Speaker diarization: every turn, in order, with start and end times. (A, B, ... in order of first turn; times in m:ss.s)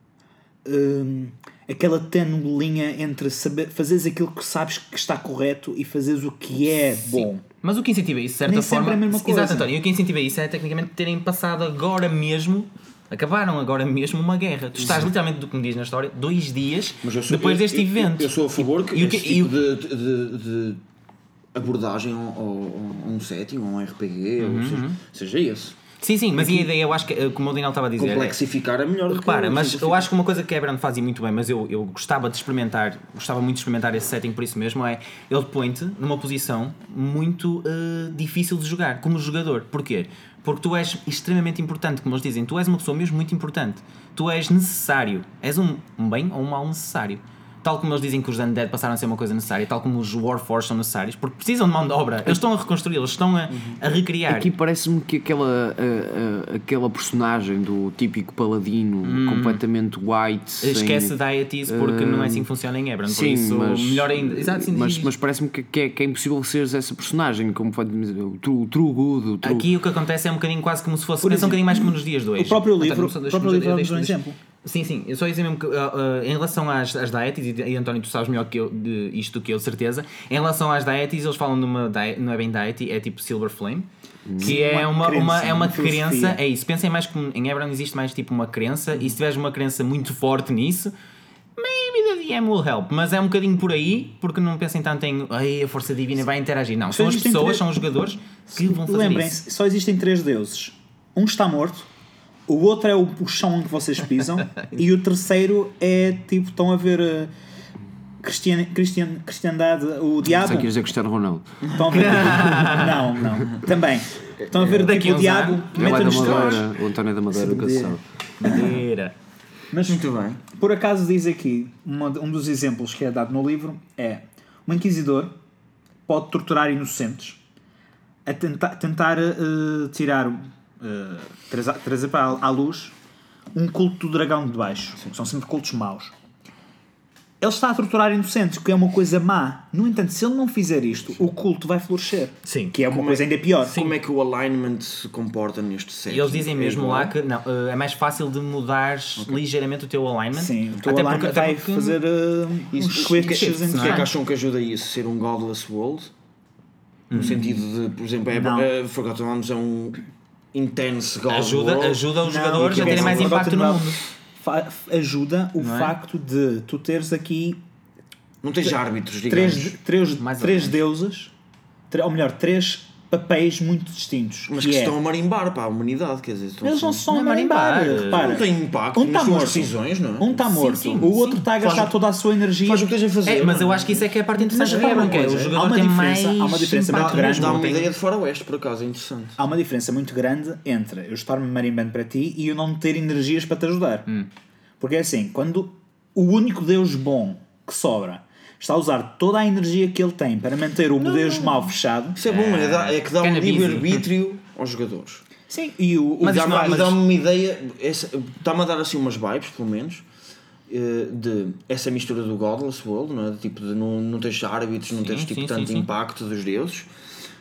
0:00.6-0:07.4 A
0:07.1-0:19.6 B
0:08.4-0:09.7 A
0:14.8-0:15.1 C
0:17.0-0:20.8 C
0:21.5-0:25.8 C
0:24.4-0:25.0 B
0:26.0-0:28.4 B
0:26.4-0:26.7 C
0:28.0-0:30.1 C
0:29.1-0:54.5 B
0:53.5-0:53.8 C
0:54.3-1:01.1 D
0:59.0-0:59.6 B
1:00.6-1:05.1 B
1:01.7-1:02.5 D
1:03.1-1:09.7 D
1:09.4-1:23.9 B
1:11.2-1:14.4 A
1:24.3-1:24.6 D
1:24.4-1:26.4 A
1:24.4-1:30.9 B
1:31.6-1:39.4 B
1:36.9-1:37.7 A
1:38.5-1:41.9 A
1:42.5-1:47.3 A
1:48.2-1:50.7 A
1:50.3-1:51.6 D
1:51.7-1:56.7 A
1:51.9-1:53.0 B
1:54.5-1:56.6 B
1:55.7-1:58.0 D
1:55.8-1:56.6 C
1:57.3-1:58.8 A
1:58.4-1:59.1 B
1:59.7-2:05.4 A
1:59.8-2:00.4 C
2:06.1-2:07.4 A
2:08.3-2:13.0 A
2:13.5-2:16.1 A
2:17.4-2:23.9 A
2:22.4-2:22.8 B
2:22.9-2:27.2 C
2:26.1-2:32.0 B
2:30.3-2:34.1 A
2:32.7-2:36.1 C
2:33.2-2:34.1 B
2:37.1-2:37.4 B
2:37.1-2:40.0 C
2:38.3-2:38.7 A
2:40.5-2:43.4 C
2:41.3-2:44.0 B
2:42.2-2:47.6 A
2:45.6-2:46.0 B
2:48.4-2:49.8 C
2:49.3-2:51.3 A
2:50.2-2:50.8 B
2:51.9-2:55.0 A
2:54.5-2:57.1 C
2:56.6-3:02.9 A
2:57.1-2:58.4 B
2:58.1-3:02.0 C
3:00.6-3:01.4 B
3:02.6-3:05.6 C
3:03.3-3:07.9 B
3:04.4-3:07.7 A
3:06.9-3:09.4 C
3:09.4-3:14.1 A
3:14.8-3:22.2 A
3:21.0-3:25.2 C
3:22.2-3:24.0 B
3:25.5-3:27.0 A
3:26.2-3:27.0 B
3:26.2-3:30.0 C
3:30.7-3:36.9 C
3:35.0-3:35.9 B